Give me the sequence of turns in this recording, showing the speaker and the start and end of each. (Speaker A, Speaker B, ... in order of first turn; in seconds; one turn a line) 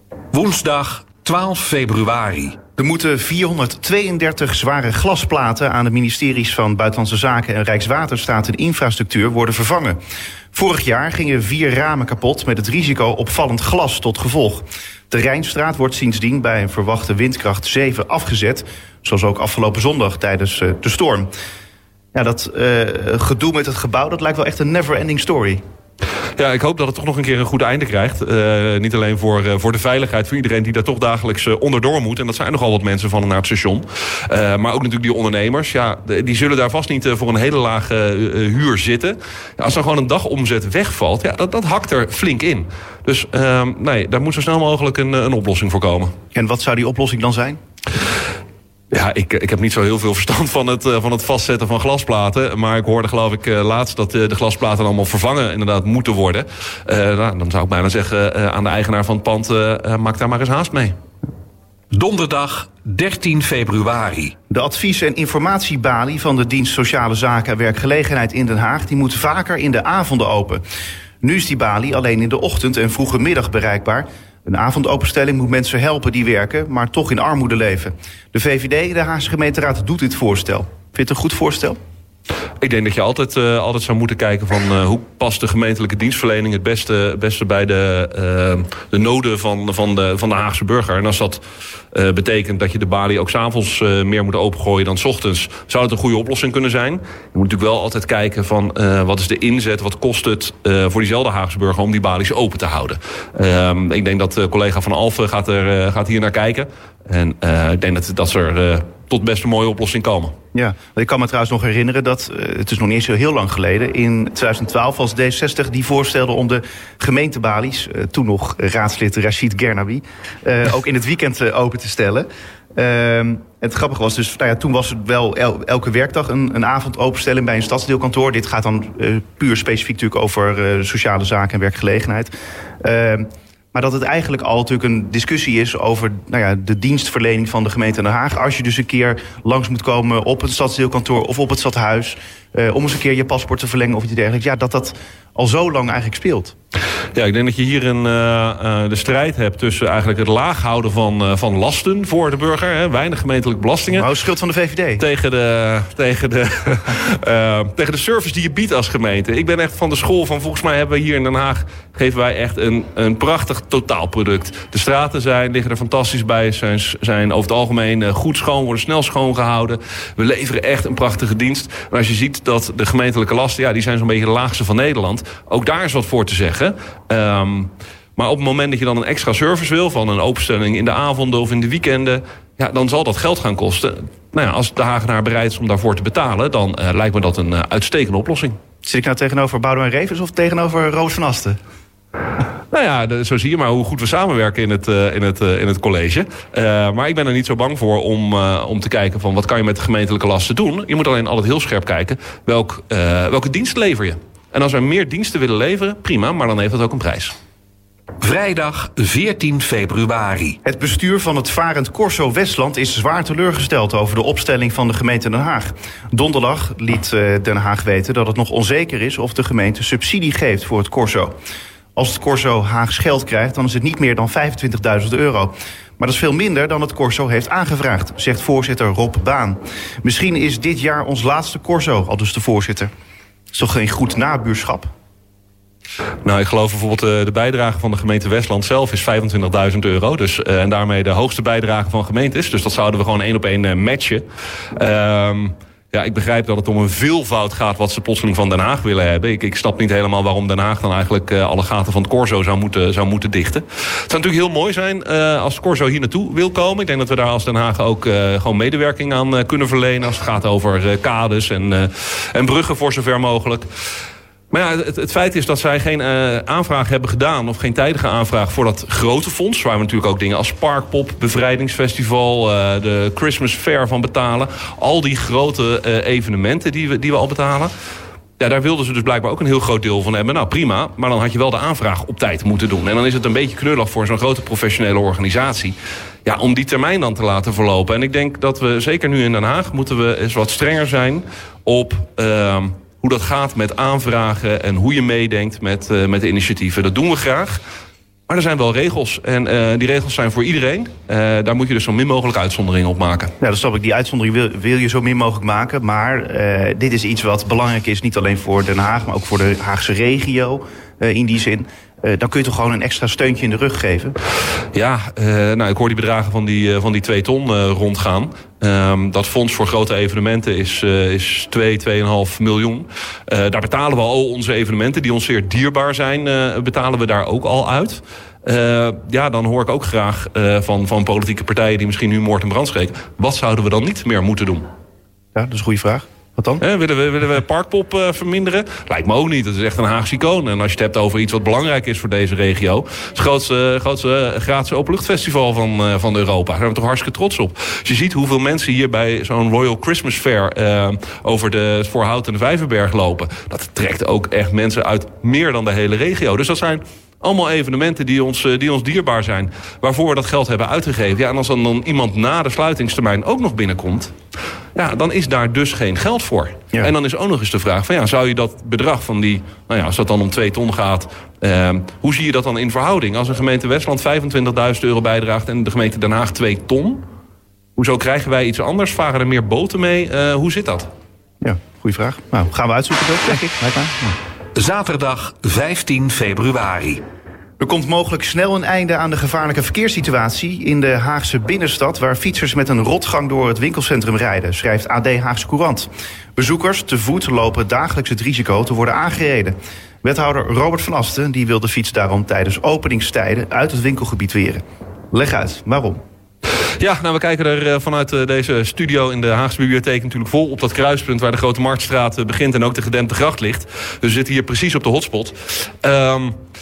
Speaker A: 0.3-2.5
Speaker B: 2.8-10.0
Speaker B: 10.5-21.3
Speaker B: 22.1-25.6
Speaker C: 26.4-46.1
Speaker B: 46.3-47.6
Speaker C: 48.9-61.0
Speaker A: 61.9-64.3
Speaker B: 64.5-70.6
Speaker B: 71.2-81.8
Speaker C: 82.6-110.3
Speaker B: 110.5-146.5
Speaker C: 147.1-154.1
Speaker B: 153.9-155.0
Speaker C: 155.0-188.6
Speaker B: 188.8-191.6
Speaker C: 192.7-207.3
Speaker A: 208.2-210.6
Speaker B: 210.6-221.3
Speaker B: 221.9-232.9
Speaker B: 233.5-234.9
Speaker C: 236.2-244.2
Speaker C: 244.7-263.7
Speaker C: 264.5-277.7
Speaker C: 278.4-297.6
Speaker C: 298.3-303.3
Speaker B: 303.4-314.1
Speaker C: 314.7-334.6
Speaker B: 335.3-336.6
Speaker C: 336.6-364.1
Speaker C: 364.7-377.0
Speaker C: 377.8-380.9
Speaker B: 381.4-384.2
Speaker A: 384.6-387.0
Speaker B: 387.6-406.0
Speaker C: 406.8-416.4